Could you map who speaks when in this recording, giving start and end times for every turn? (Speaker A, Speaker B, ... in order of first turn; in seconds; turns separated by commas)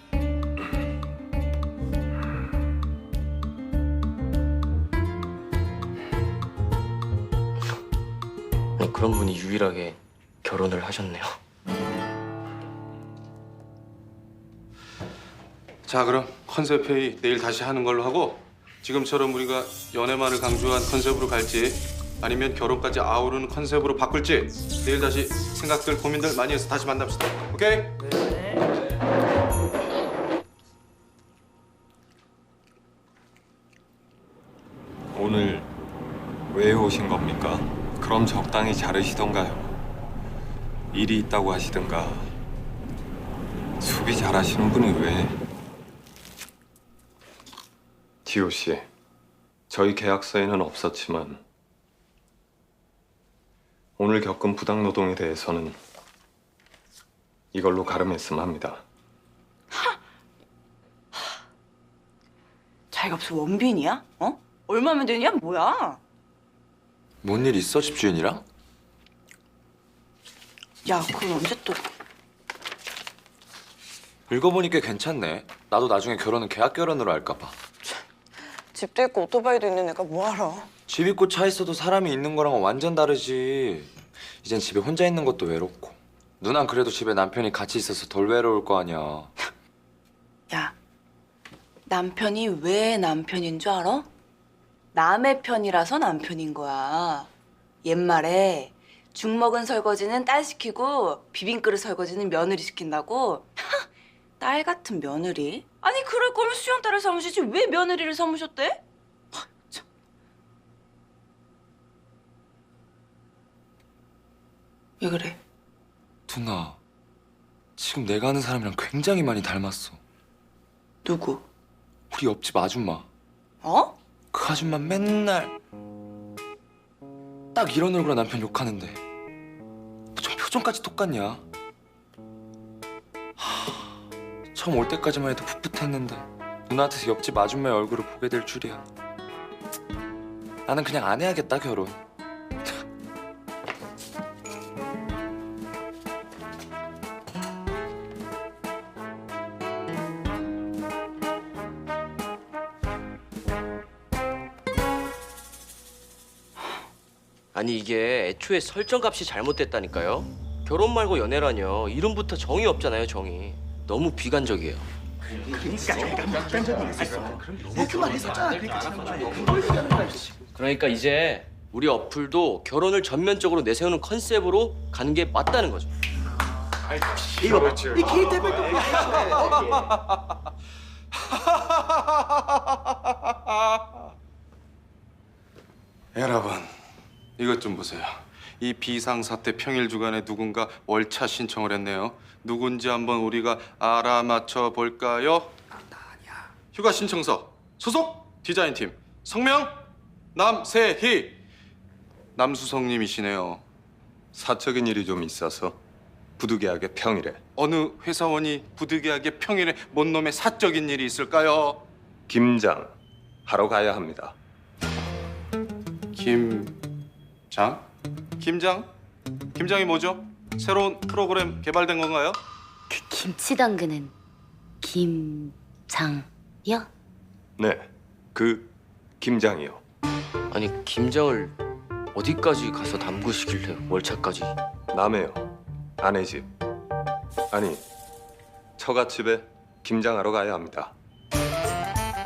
Speaker A: 8.8-11.3, Speaker B: 15.8-28.0, Speaker C: 35.1-35.7, Speaker C: 36.5-39.7, Speaker C: 40.9-42.3, Speaker C: 43.8-45.4, Speaker C: 48.2-48.9, Speaker C: 49.7-51.4, Speaker C: 54.0-55.8, Speaker C: 57.5-58.8, Speaker D: 62.9-66.0, Speaker E: 67.2-68.5, Speaker D: 70.9-71.8, Speaker E: 74.3-77.6, Speaker D: 78.7-80.7, Speaker E: 80.9-83.9, Speaker E: 84.4-89.3, Speaker D: 91.9-94.1, Speaker D: 94.9-97.3, Speaker D: 97.8-103.8, Speaker D: 104.4-108.8, Speaker D: 109.3-109.8, Speaker D: 115.0-115.4, Speaker E: 116.3-116.8, Speaker E: 117.8-120.0, Speaker D: 121.0-121.4, Speaker E: 122.1-123.1, Speaker D: 123.6-123.9, Speaker E: 124.3-125.5, Speaker E: 127.5-129.0, Speaker E: 130.2-131.4, Speaker E: 133.4-133.8, Speaker E: 134.5-138.8, Speaker E: 140.7-142.0, Speaker A: 157.5-164.9, Speaker A: 167.8-175.9, Speaker B: 177.4-179.9, Speaker B: 181.3-182.2, Speaker B: 186.2-186.7, Speaker B: 187.4-195.5, Speaker B: 196.7-199.8, Speaker B: 200.3-201.3, Speaker B: 202.3-203.6, Speaker C: 204.3-205.8, Speaker C: 206.4-207.4, Speaker B: 207.6-211.8, Speaker C: 212.3-214.3, Speaker B: 216.1-216.8, Speaker B: 217.5-217.8, Speaker B: 218.4-218.9, Speaker B: 219.5-222.4, Speaker F: 222.9-224.1, Speaker F: 224.8-226.9, Speaker C: 227.6-229.8, Speaker A: 230.5-231.5, Speaker A: 232.1-234.5, Speaker C: 234.9-235.5, Speaker C: 236.0-236.5, Speaker C: 237.5-237.8, Speaker C: 238.8-240.9